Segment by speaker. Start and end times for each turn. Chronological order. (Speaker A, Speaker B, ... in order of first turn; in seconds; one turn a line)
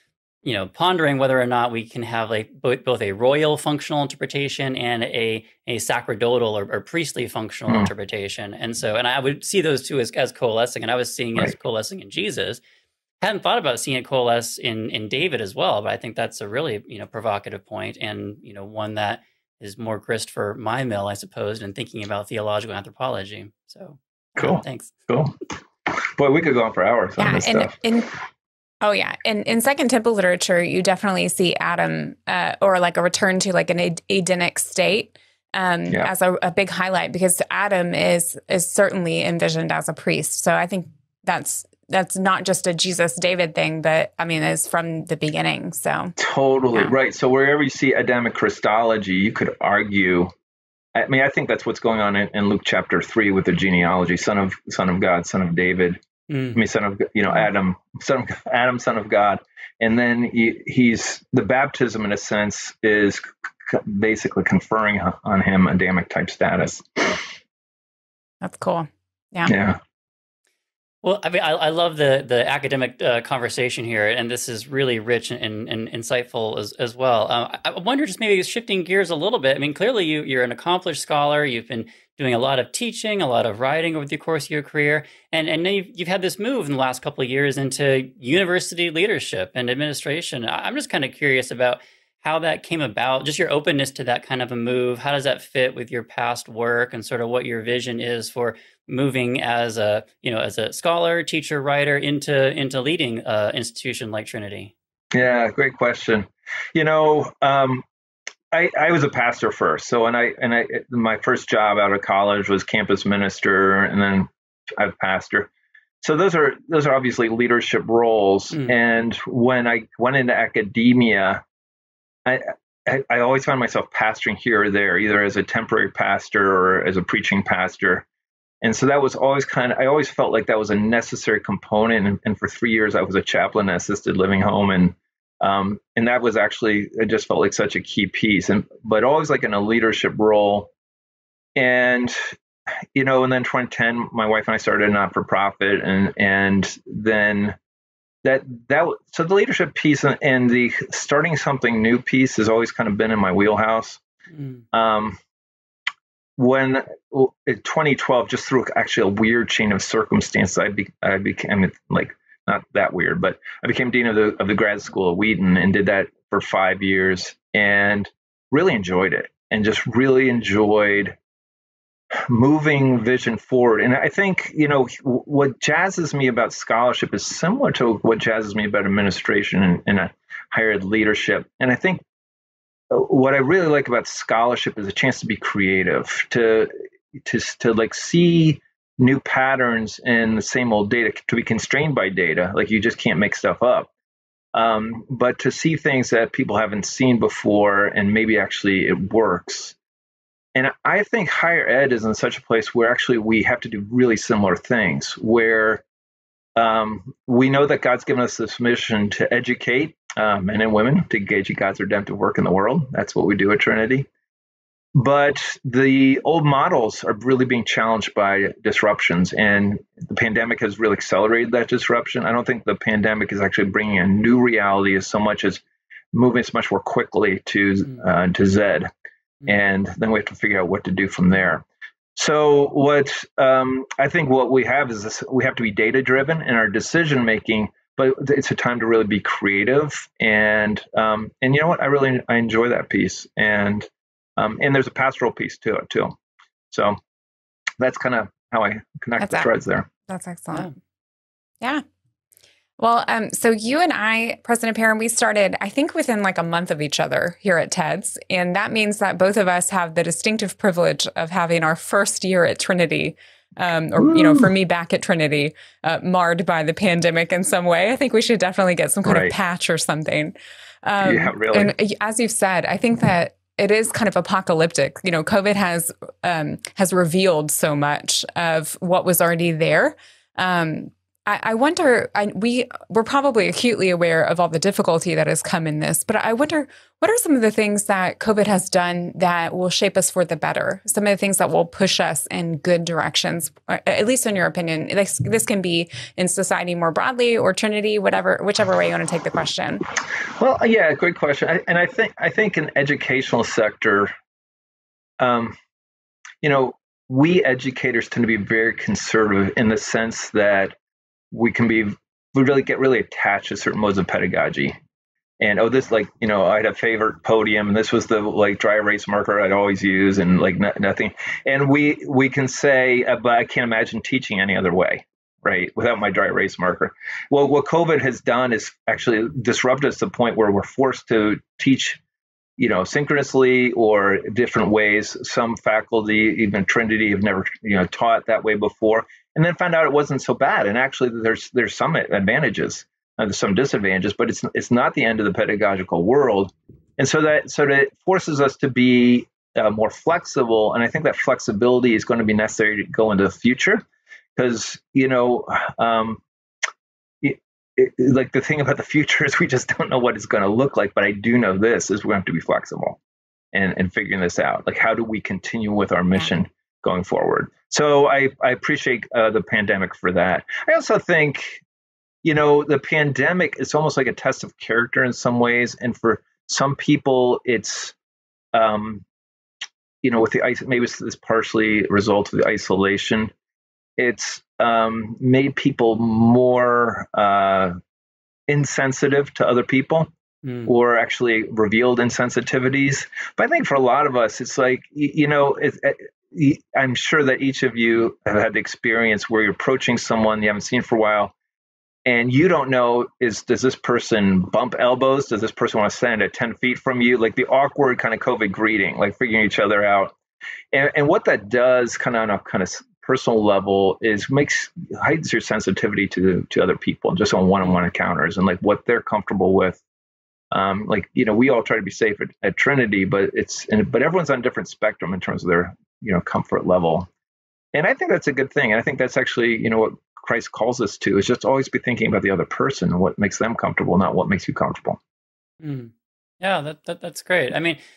Speaker A: 0.4-12.6
Speaker A: 13.2-24.9
Speaker B: 24.4-27.7
Speaker C: 27.2-28.1
Speaker C: 28.8-46.1
Speaker B: 46.2-50.3
Speaker B: 51.0-56.0
Speaker A: 56.3-56.6
Speaker B: 56.5-67.2
Speaker C: 68.4-69.5
Speaker B: 69.5-69.8
Speaker A: 71.0-104.7
Speaker B: 105.1-107.8
Speaker B: 108.5-115.5
Speaker B: 116.0-121.4
Speaker B: 122.2-128.1
Speaker B: 128.6-140.7
Speaker B: 141.6-142.2
Speaker B: 142.9-147.6
Speaker B: 148.2-154.0
Speaker A: 154.3-154.6
Speaker B: 154.7-155.2
Speaker B: 156.4-171.2
Speaker B: 172.3-182.0
Speaker B: 182.9-193.9
Speaker B: 194.5-199.8
Speaker B: 200.6-205.8
Speaker B: 206.6-214.1
Speaker B: 214.9-225.6
Speaker B: 226.1-228.9
Speaker B: 229.5-231.6
Speaker B: 232.2-246.2
Speaker B: 246.7-247.0
Speaker B: 247.8-249.9
Speaker C: 249.2-249.5
Speaker C: 250.1-250.8
Speaker C: 252.8-299.9
Speaker B: 264.0-264.5
Speaker B: 269.0-269.3
Speaker B: 271.0-271.7
Speaker B: 300.4-304.1
Speaker B: 305.2-305.6
Speaker B: 306.4-310.7
Speaker B: 311.3-314.8
Speaker B: 315.4-332.0
Speaker B: 332.6-353.8
Speaker B: 354.4-356.2
Speaker B: 357.2-363.0
Speaker B: 363.5-371.6
Speaker B: 372.2-377.9
Speaker B: 378.5-379.0
Speaker B: 380.0-383.3
Speaker B: 384.0-387.8
Speaker B: 388.5-390.1
Speaker A: 390.4-390.7
Speaker B: 390.7-401.3
Speaker B: 402.1-410.1
Speaker B: 410.7-419.8
Speaker B: 420.5-427.1
Speaker B: 427.7-435.0
Speaker A: 435.6-437.8